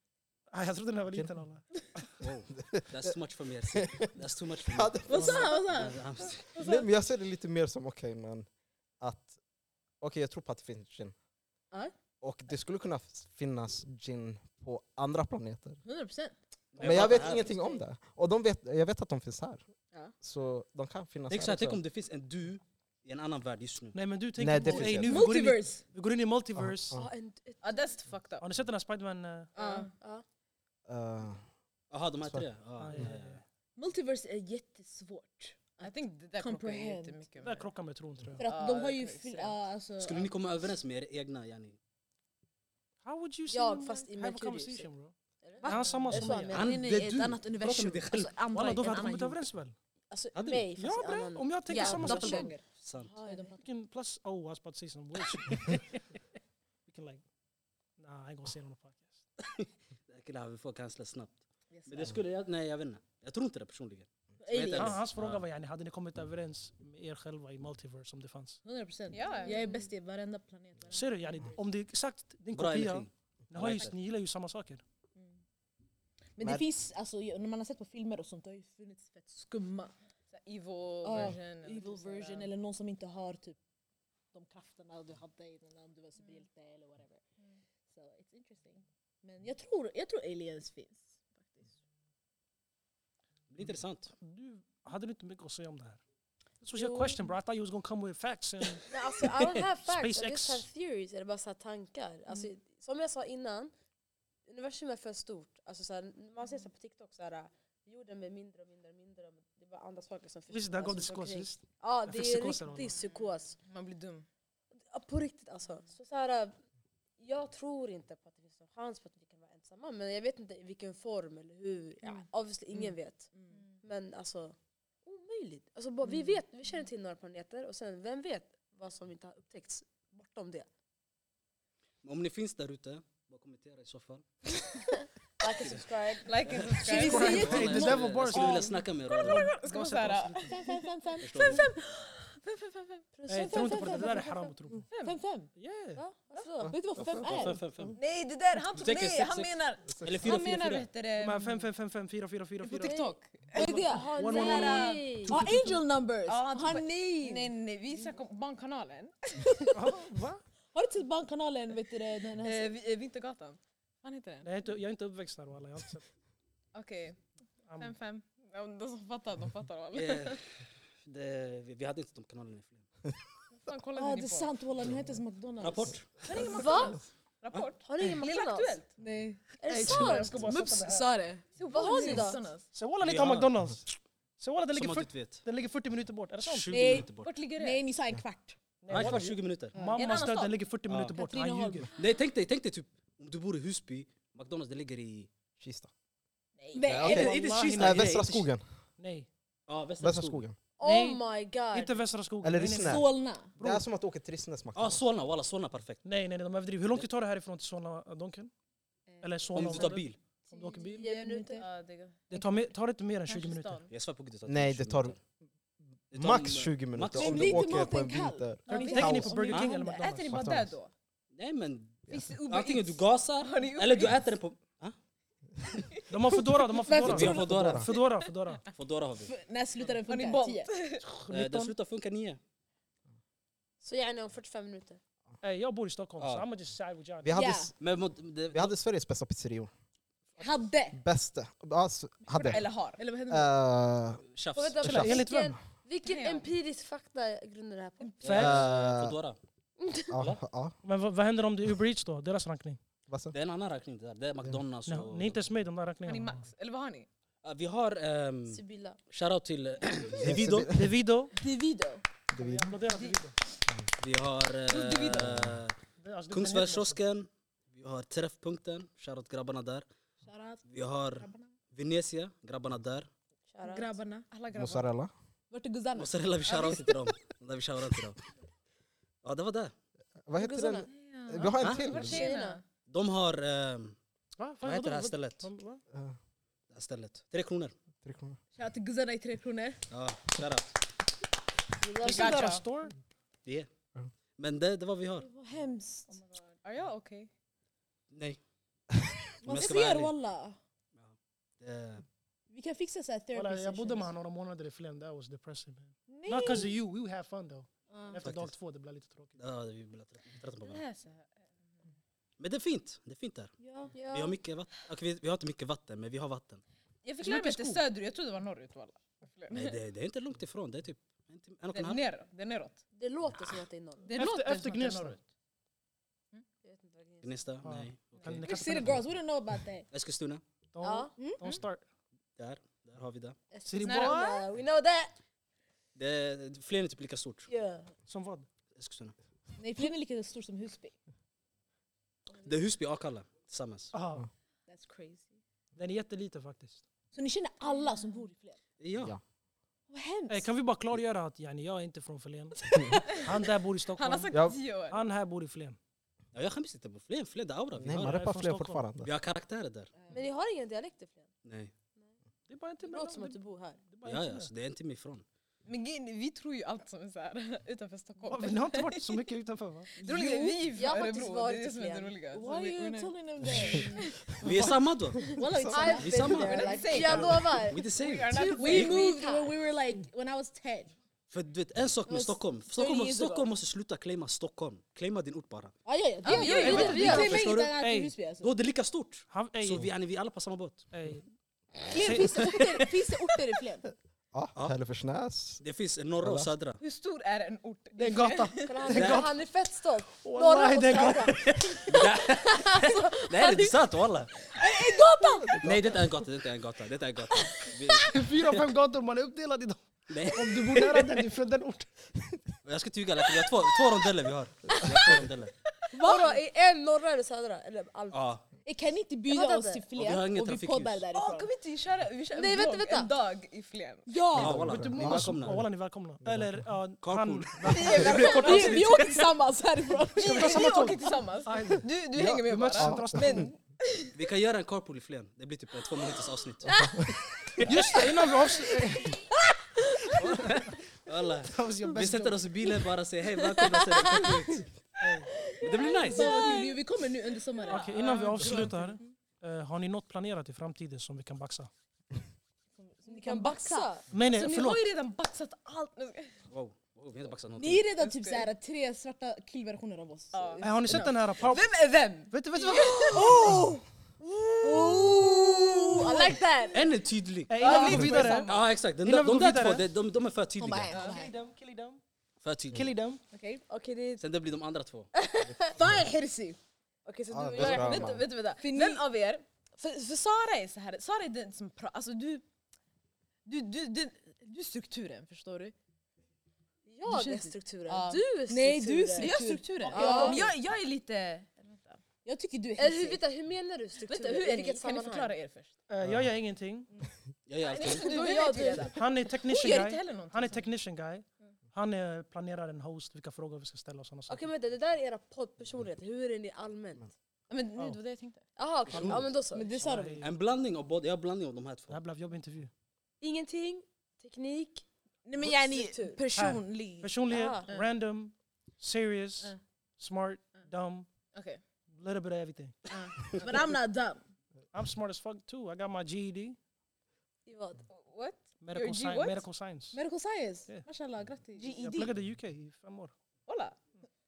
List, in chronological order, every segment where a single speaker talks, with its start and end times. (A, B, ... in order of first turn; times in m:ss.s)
0:00.5-0:02.1 A
0:02.2-0:06.5 B
0:02.6-0:03.1 C
0:03.7-0:04.1 C
0:04.7-0:05.9 C
0:05.1-0:06.0 D
0:06.5-0:08.5 C
0:09.0-0:09.4 C
0:10.0-0:11.1 C
0:12.2-0:15.8 C
0:15.8-0:17.8 D
0:16.7-0:17.5 B
0:16.8-0:19.7 C
0:20.2-0:21.8 C
0:21.3-0:24.0 B
0:23.9-0:27.0 A
0:24.4-0:25.3 C
0:25.0-0:25.8 D
0:26.6-0:27.1 C
0:26.9-0:27.9 E
0:27.6-0:28.5 F
0:28.4-0:29.5 A
0:29.5-0:30.2 E
0:29.6-0:29.9 F
0:30.9-0:31.4 C
0:31.9-0:33.4 B
0:32.8-0:33.4 A
0:33.8-0:37.2 D
0:35.8-0:37.7 F
0:37.4-0:38.4 A
0:38.4-0:39.6 F
0:38.4-0:40.3 D
0:40.0-0:41.8 B
0:43.0-0:46.7 A
0:43.5-0:44.9 E
0:45.4-0:46.8 E
0:45.6-0:49.4 D
0:46.4-0:48.4 B
0:48.5-0:49.7 A
0:50.1-0:53.6 E
0:50.3-0:50.7 B
0:50.8-0:52.6 A
0:51.7-0:52.6 D
0:51.8-0:53.2 B
0:53.2-0:53.6 D
0:53.6-0:56.0 A
0:56.8-0:57.2 A
0:58.0-0:59.2 A
0:59.4-1:05.4 B
1:01.7-1:02.2 D
1:04.5-1:05.0 E
1:04.5-1:04.8 D
1:04.7-1:08.6 A
1:08.6-1:11.6 D
1:09.1-1:09.6 F
1:09.4-1:09.8 E
1:10.9-1:14.8 A
1:12.5-1:13.9 B
1:16.4-1:19.9 D
1:16.4-1:16.7 C
1:20.3-1:22.5 F
1:21.0-1:23.6 D
1:24.3-1:27.2 D
1:27.9-1:31.7 D
1:33.5-1:34.1 B
1:34.2-1:36.0 A
1:36.6-1:38.9 A
1:38.9-1:43.7 E
1:39.8-1:40.6 A
1:44.5-1:53.6 E
1:50.5-1:53.0 A
1:53.6-1:54.3 F
1:54.9-1:56.5 E
1:57.2-2:03.3 E
2:02.1-2:03.6 F
2:03.8-2:10.7 E
2:12.0-2:14.2 B
2:15.4-2:17.8 E
2:15.5-2:15.9 B
2:16.2-2:23.0 F
2:16.4-2:19.5 B
2:16.8-2:18.6 D
2:16.9-2:20.5 A
2:20.5-2:21.6 D
2:21.2-2:21.7 B
2:23.1-2:24.5 E
2:23.3-2:24.9 A
2:23.5-2:24.1 D
2:24.9-2:25.2 F
2:25.0-2:25.5 D
2:25.6-2:26.0 A
2:25.9-2:26.8 E
2:26.6-2:27.2 C
2:26.7-2:27.9 D
2:27.0-2:28.0 B
2:27.9-2:31.5 F
2:28.7-2:30.9 B
2:30.0-2:30.2 C
2:31.2-2:32.9 A
2:32.6-2:35.0 F
2:32.8-2:33.1 E
2:33.5-2:35.8 A
2:33.6-2:37.5 D
2:33.6-2:35.4 E
2:36.2-2:39.5 F
2:39.7-2:40.4 A
2:40.7-2:42.7 D
2:42.4-2:44.5 F
2:44.4-2:46.0 A
2:46.7-2:47.2 F
2:47.7-2:47.9 A
2:47.8-2:50.4 F
2:49.9-2:50.4 B
2:51.0-2:52.8 B
2:53.5-2:54.5 F
2:54.0-2:56.7 D
2:55.6-2:56.1 B
2:56.2-2:58.9 F
2:56.4-2:57.0 E
2:57.8-2:58.8 E
2:59.0-2:59.5 D
2:59.6-3:00.6 E
2:59.7-3:01.1 A
3:00.4-3:01.4 D
3:00.6-3:02.6 F
3:01.6-3:02.4 E
3:02.7-3:07.0 A
3:03.0-3:03.5 B
3:04.7-3:05.4 B
3:06.4-3:07.3 B
3:06.7-3:08.6 D
3:07.2-3:07.8 F
3:08.8-3:11.9 A
3:08.9-3:09.8 B
3:09.7-3:10.1 F
3:09.8-3:10.6 D
3:10.9-3:11.1 B
3:11.1-3:11.9 D
3:12.0-3:15.3 B
3:15.6-3:15.9 C
3:16.6-3:17.4 D
3:16.8-3:18.6 C
3:16.9-3:18.5 B
3:17.0-3:18.3 A
3:19.0-3:19.3 A
3:19.7-3:20.4 B
3:20.0-3:20.6 C
3:20.8-3:22.0 E
3:20.8-3:23.8 A
3:22.4-3:25.0 C
3:22.8-3:23.5 D
3:24.7-3:26.0 B
3:26.0-3:28.5 A
3:29.1-3:30.0 D
3:29.2-3:31.0 A
3:29.5-3:30.2 B
3:30.5-3:31.6 D
3:31.0-3:31.6 E
3:31.6-3:32.3 F
3:32.3-3:33.8 A
3:33.3-3:33.9 F
3:33.9-3:35.2 B
3:34.4-3:35.2 C
3:36.1-3:39.4 C
3:36.1-3:37.8 B
3:37.1-3:39.7 D
3:38.7-3:40.5 A
3:38.7-3:40.9 F
3:40.3-3:40.8 C
3:41.3-3:44.9 B
3:42.1-3:44.3 F
3:46.1-3:48.7 A
3:46.8-3:47.5 D
3:46.9-3:47.9 B
3:47.1-3:47.9 C
3:48.7-3:49.3 B
3:49.2-3:50.7 D
3:50.0-3:51.0 F
3:51.0-3:51.7 A
3:51.3-3:52.4 B
3:53.8-3:55.0 E
3:55.4-3:57.5 A
3:56.2-3:56.5 B
3:57.2-3:57.8 C
3:57.3-3:57.7 D
3:57.8-3:58.7 B
3:58.5-3:59.7 C
4:00.4-4:01.0 D
4:00.9-4:02.7 C
4:02.3-4:03.0 F
4:02.6-4:03.5 D
4:03.3-4:04.3 C
4:04.3-4:04.9 B
4:04.5-4:08.4 E
4:04.8-4:05.5 C
4:04.8-4:05.6 A
4:06.0-4:06.5 F
4:08.2-4:09.4 B
4:08.2-4:08.6 A
4:08.3-4:09.2 C
4:09.8-4:10.1 E
4:10.1-4:10.7 C
4:10.8-4:12.8 A
4:13.1-4:13.3 C
4:13.3-4:15.4 B
4:14.9-4:16.4 A
4:16.0-4:17.1 F
4:17.4-4:20.7 B
4:18.5-4:19.0 E
4:20.2-4:20.9 C
4:20.6-4:21.3 A
4:21.4-4:22.0 D
4:22.3-4:22.7 C
4:22.3-4:23.4 A
4:22.9-4:23.2 F
4:24.0-4:25.8 B
4:24.7-4:25.4 F
4:25.1-4:25.6 C
4:26.0-4:27.0 A
4:26.3-4:29.8 B
4:30.2-4:31.5 D
4:30.6-4:33.1 B
4:33.5-4:34.0 E
4:33.6-4:34.2 D
4:34.3-4:34.9 F
4:34.5-4:35.1 C
4:35.5-4:36.7 D
4:35.9-4:38.2 B
4:39.2-4:39.7 B
4:40.3-4:42.3 C
4:40.4-4:40.9 E
4:40.9-4:42.6 F
4:41.6-4:41.8 B
4:41.8-4:42.6 E
4:42.9-4:44.0 B
4:44.4-4:45.8 A
4:44.6-4:45.5 B
4:45.9-4:46.2 C
4:46.7-4:47.7 B
4:48.0-4:48.4 C
4:48.6-4:49.8 D
4:49.9-4:50.7 B
4:51.8-4:52.5 E
4:52.0-4:52.6 F
4:52.0-4:52.9 A
4:54.4-4:55.3 B
4:55.2-4:56.2 D
4:56.6-4:57.3 F
4:58.1-4:58.4 B
4:59.4-5:00.6 D
4:59.4-5:00.1 B
5:00.9-5:02.0 B
5:02.5-5:04.1 D
5:03.3-5:09.4 A
5:06.1-5:06.8 D
5:07.9-5:08.2 D
5:08.2-5:08.5 B
5:09.4-5:10.8 B
5:10.6-5:11.4 F
5:12.4-5:13.5 B
5:13.6-5:14.4 E
5:14.1-5:16.6 B
5:17.0-5:19.8 F
5:17.2-5:17.8 A
5:19.5-5:22.0 B
5:21.7-5:22.8 F
5:22.9-5:24.2 E
5:24.1-5:25.2 F
5:24.1-5:25.2 A
5:26.6-5:27.6 E
5:27.2-5:28.4 B
5:27.6-5:29.0 A
5:28.4-5:29.9 D
5:29.9-5:30.4 B
5:30.7-5:31.8 A
5:30.8-5:31.1 E
5:32.4-5:33.4 B
5:33.5-5:35.1 E
5:33.6-5:34.4 A
5:33.8-5:34.3 F
5:36.0-5:37.5 B
5:37.5-5:37.9 E
5:38.1-5:38.5 A
5:38.8-5:39.1 B
5:39.6-5:40.9 D
5:42.4-5:43.9 B
5:43.9-5:44.2 A
5:44.7-5:45.3 D
5:45.7-5:46.8 A
5:47.1-5:48.6 D
5:48.8-5:49.1 B
5:49.9-5:50.5 D
5:50.3-5:55.8 A
5:52.9-5:53.2 F
5:54.0-5:55.0 F
5:54.3-5:54.6 C
5:56.3-5:58.1 B
5:57.8-5:59.1 C
5:57.9-5:58.8 A
5:59.0-5:59.9 B
6:00.1-6:01.3 E
6:01.4-6:01.7 B
6:02.5-6:04.5 A
6:02.8-6:03.8 E
6:04.0-6:05.2 B
6:05.6-6:09.2 F
6:08.2-6:09.9 A
6:10.0-6:14.1 F
6:10.0-6:12.2 E
6:10.1-6:10.4 D
6:12.3-6:14.3 D
6:13.4-6:13.8 C
6:14.4-6:15.4 B
6:14.4-6:14.7 A
6:15.2-6:16.1 D
6:15.6-6:19.6 E
6:16.0-6:18.3 B
6:16.2-6:19.0 F
6:18.5-6:20.9 D
6:21.3-6:25.7 B
6:22.1-6:22.4 E
6:22.7-6:23.5 D
6:25.8-6:28.5 D
6:26.2-6:27.3 F
6:26.3-6:27.5 E
6:26.5-6:27.8 B
6:26.7-6:28.2 A
6:28.3-6:30.8 B
6:29.3-6:29.8 A
6:30.9-6:31.2 A
6:31.9-6:33.9 D
6:32.0-6:32.5 A
6:32.3-6:32.8 B
6:34.3-6:35.6 C
6:35.6-6:36.8 B
6:36.2-6:36.5 C
6:36.8-6:38.7 F
6:38.0-6:39.3 A
6:38.6-6:43.7 E
6:38.9-6:39.2 B
6:40.2-6:41.8 A
6:41.3-6:44.4 B
6:44.6-6:45.6 D
6:45.2-6:45.6 E
6:45.6-6:46.0 C
6:45.6-6:48.7 B
6:47.4-6:47.9 D
6:48.1-6:51.9 A
6:50.1-6:51.1 B
6:52.6-6:55.5 B
6:54.8-6:55.2 D
6:55.9-6:58.2 E
6:56.0-6:56.4 D
6:58.1-6:58.4 B
6:58.6-7:01.5 D
6:59.3-6:59.9 E
6:59.9-7:01.0 B
7:01.1-7:04.1 F
7:02.3-7:03.1 E
7:04.1-7:04.7 D
7:04.3-7:05.6 B
7:04.4-7:05.6 C
7:04.5-7:08.7 A
7:06.2-7:06.6 C
7:07.0-7:09.1 B
7:07.6-7:09.2 F
7:07.9-7:10.6 D
7:10.2-7:14.1 F
7:10.2-7:13.5 A
7:12.2-7:13.5 C
7:14.1-7:18.0 B
7:17.6-7:19.2 A
7:20.1-7:24.7 B
7:20.2-7:20.7 A
7:21.5-7:22.4 A
7:23.6-7:24.3 D
7:25.0-7:25.3 A
7:25.6-7:26.4 B
7:25.6-7:28.7 D
7:25.8-7:26.8 F
7:25.9-7:26.8 E
7:27.5-7:29.0 F
7:27.7-7:31.7 A
7:32.8-7:36.3 F
7:33.0-7:34.1 E
7:33.2-7:33.8 D
7:34.1-7:34.8 A
7:36.5-7:37.8 B
7:37.6-7:41.0 D
7:38.0-7:38.5 F
7:40.3-7:43.2 F
7:40.6-7:41.7 A
7:42.3-7:43.6 A
7:43.1-7:46.9 D
7:43.3-7:43.7 E
7:44.6-7:46.7 E
7:46.7-7:51.0 B
7:47.5-7:49.8 A
7:47.6-7:48.7 F
7:47.6-7:48.2 D
7:50.6-7:51.3 D
7:50.9-7:51.2 F
7:50.9-7:52.0 A
7:52.4-7:52.9 B
7:52.7-7:53.2 A
7:53.7-7:54.2 E
7:54.2-7:55.1 B
7:55.2-7:55.6 E
7:55.4-7:56.6 D
7:57.0-7:58.2 E
7:57.3-7:58.2 C
7:57.6-8:02.4 F
7:58.6-7:59.0 D
8:03.4-8:05.7 F
8:06.9-8:10.5 E
8:07.0-8:08.2 F
8:08.5-8:10.5 D
8:09.2-8:12.0 F
8:12.2-8:13.2 D
8:12.8-8:15.3 E
8:14.0-8:15.7 F
8:15.9-8:16.9 A
8:17.5-8:18.3 B
8:17.6-8:20.7 F
8:17.8-8:19.0 E
8:18.9-8:24.4 A
8:24.3-8:27.1 E
8:27.5-8:28.4 F
8:28.6-8:29.8 E
8:28.9-8:29.2 B
8:29.5-8:30.2 D
8:29.8-8:30.3 A
8:30.2-8:32.0 B
8:31.9-8:32.7 A
8:33.2-8:34.8 E
8:35.2-8:37.2 D
8:35.4-8:36.3 E
8:36.3-8:41.1 A
8:37.3-8:37.8 E
8:41.3-8:41.6 F
8:41.9-8:42.8 A
8:42.9-8:43.6 F
8:43.2-8:44.2 D
8:44.7-8:46.6 A
8:47.4-8:47.8 E
8:47.9-8:49.4 F
8:48.6-8:50.0 A
8:49.9-8:52.1 D
8:51.4-8:51.7 F
8:51.7-8:53.1 A
8:53.5-8:53.8 F